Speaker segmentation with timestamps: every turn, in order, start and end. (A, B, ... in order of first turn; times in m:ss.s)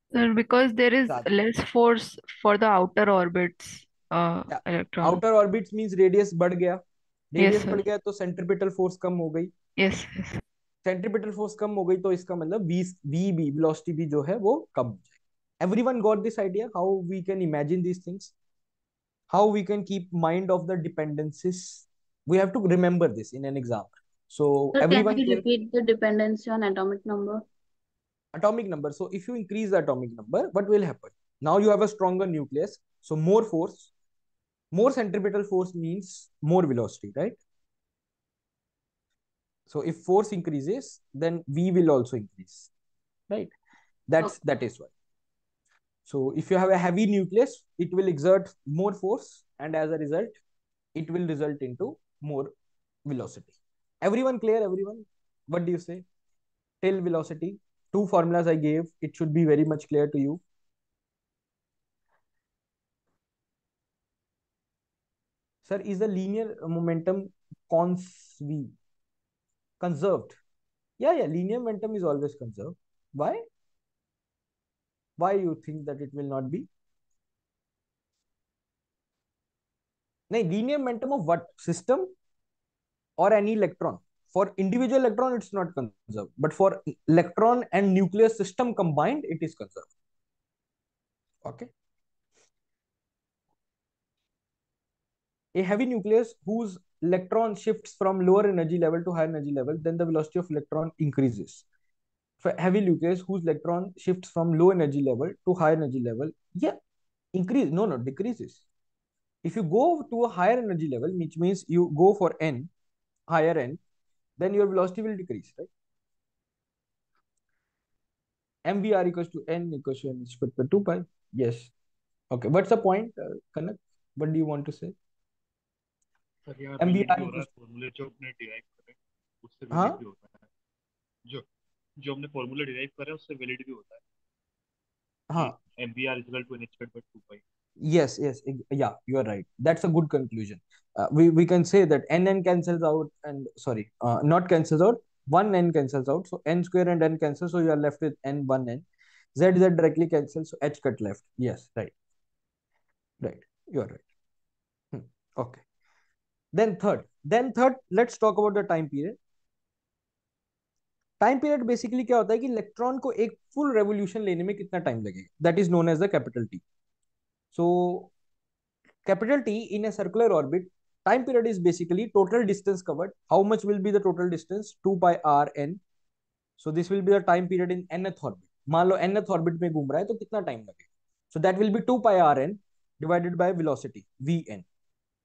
0:00.1-0:05.2 A
0:04.5-0:09.5 B
0:07.4-0:07.8 A
0:09.8-0:10.4 A
0:10.8-0:15.0 B
0:15.6-0:18.3 B
0:19.3-0:25.4 B
0:24.7-0:27.4 C
0:28.3-0:33.9 B
0:34.7-0:37.4 B
0:39.7-0:42.7 B
0:44.1-0:44.9 B
0:46.0-0:50.4 B
0:50.9-0:52.5 B
0:53.0-0:56.0 B
0:56.8-1:00.4 B
1:05.6-1:08.7 B
1:09.8-1:10.4 B
1:11.0-1:13.4 B
1:15.2-1:16.7 B
1:20.3-1:22.1 B
1:23.2-1:29.9 B
1:31.4-1:31.7 B
1:35.5-1:41.6 B
1:42.4-1:46.8 B
1:47.3-1:48.6 B
1:49.4-1:52.7 B
1:53.3-1:53.8 B
1:54.4-1:55.7 B
1:58.6-2:01.7 B
2:02.3-2:04.9 B
2:06.4-2:10.5 D
2:06.8-2:07.5 B
2:09.7-2:10.0 B
2:12.0-2:14.0 D
2:15.3-2:15.6 B
2:15.3-2:17.4 D
2:17.8-2:28.8 B
2:29.4-2:31.9 B
2:33.2-2:34.0 B
2:34.9-2:35.6 B
2:36.5-2:39.2 B
2:41.2-2:46.6 B
2:47.5-2:48.1 B
2:49.0-2:55.8 B
2:56.6-3:00.8 B
3:01.3-3:04.6 B